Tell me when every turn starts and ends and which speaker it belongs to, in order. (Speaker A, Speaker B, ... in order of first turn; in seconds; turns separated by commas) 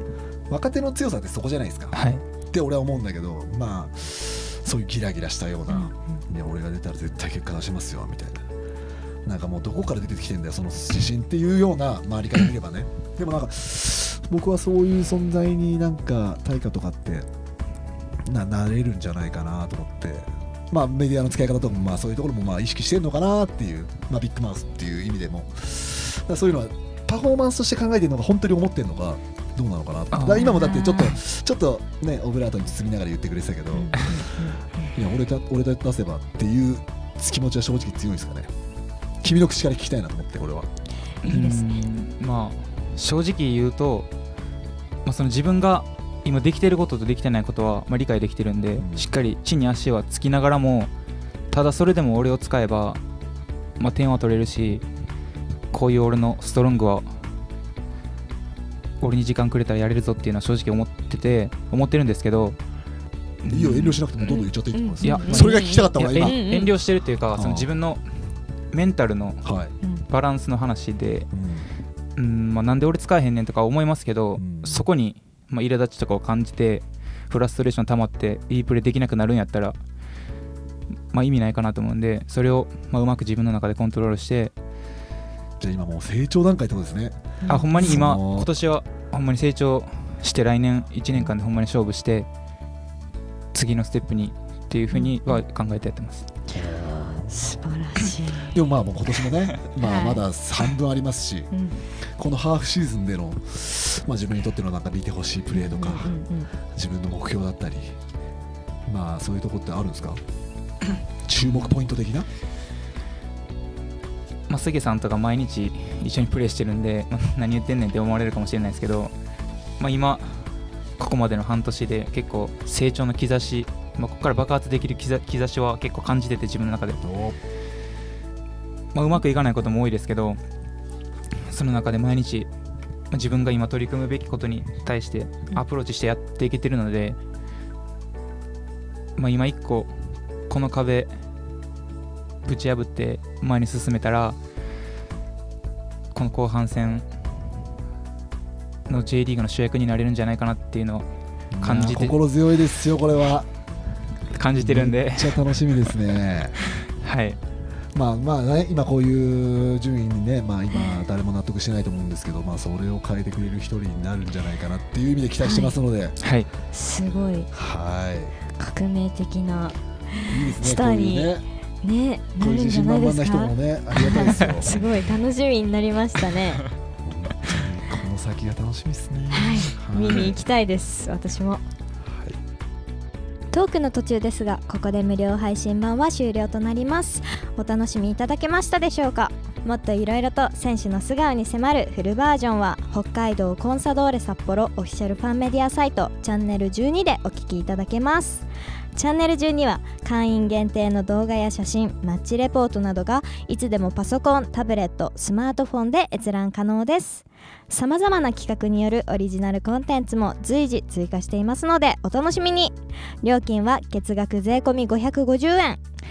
Speaker A: 0.5-2.0, Speaker B: 1.9-2.2, Speaker A: 2.5-8.4, Speaker C: 5.7-6.2, Speaker A: 9.2-17.3, Speaker A: 18.2-34.2, Speaker B: 30.1-31.0, Speaker C: 30.4-31.1, Speaker C: 33.7-34.9, Speaker A: 34.9-38.5, Speaker A: 39.2-40.7, Speaker C: 41.2-41.8, Speaker B: 41.2-44.1, Speaker B: 45.0-50.9, Speaker A: 48.8-49.1, Speaker B: 51.5-53.0, Speaker B: 53.8-54.8, Speaker B: 55.7-57.1, Speaker B: 59.0-62.6, Speaker B: 63.4-64.3, Speaker A: 63.5-66.4, Speaker C: 64.2-66.7, Speaker B: 65.0-69.4, Speaker A: 67.3-67.7, Speaker A: 69.4-69.7, Speaker B: 70.1-71.3, Speaker A: 71.3-71.7, Speaker B: 72.2-79.8, Speaker A: 74.4-74.9, Speaker B: 81.1-84.5, Speaker A: 85.6-88.5, Speaker C: 87.4-88.0, Speaker B: 87.5-92.3, Speaker B: 93.5-96.3, Speaker C: 94.9-95.2, Speaker A: 96.5-97.6, Speaker C: 97.3-98.5, Speaker A: 98.5-108.0, Speaker C: 99.8-100.2, Speaker C: 101.5-101.8, Speaker C: 105.5-106.5, Speaker A: 108.9-110.2, Speaker A: 111.2-112.3, Speaker B: 111.4-111.7, Speaker B: 114.5-119.1, Speaker B: 119.8-127.0, Speaker A: 127.0-127.4, Speaker B: 128.9-130.4, Speaker B: 131.5-132.5, Speaker B: 133.1-137.2, Speaker B: 139.2-139.9, Speaker B: 140.5-141.1, Speaker B: 142.4-144.4, Speaker B: 146.1-147.1, Speaker B: 148.9-151.1, Speaker A: 151.5-153.5, Speaker B: 151.6-152.2, Speaker B: 154.3-156.0, Speaker A: 154.6-156.6, Speaker B: 157.0-157.4, Speaker A: 157.9-166.2, Speaker C: 160.7-161.0, Speaker C: 165.4-165.8, Speaker B: 166.2-166.5, Speaker C: 166.7-167.5, Speaker A: 167.5-168.3, Speaker C: 168.5-176.6, Speaker A: 170.3-171.4, Speaker A: 172.4-174.8, Speaker B: 174.1-174.8, Speaker A: 177.0-180.4, Speaker C: 179.3-181.6, Speaker A: 182.1-182.4, Speaker C: 183.5-215.8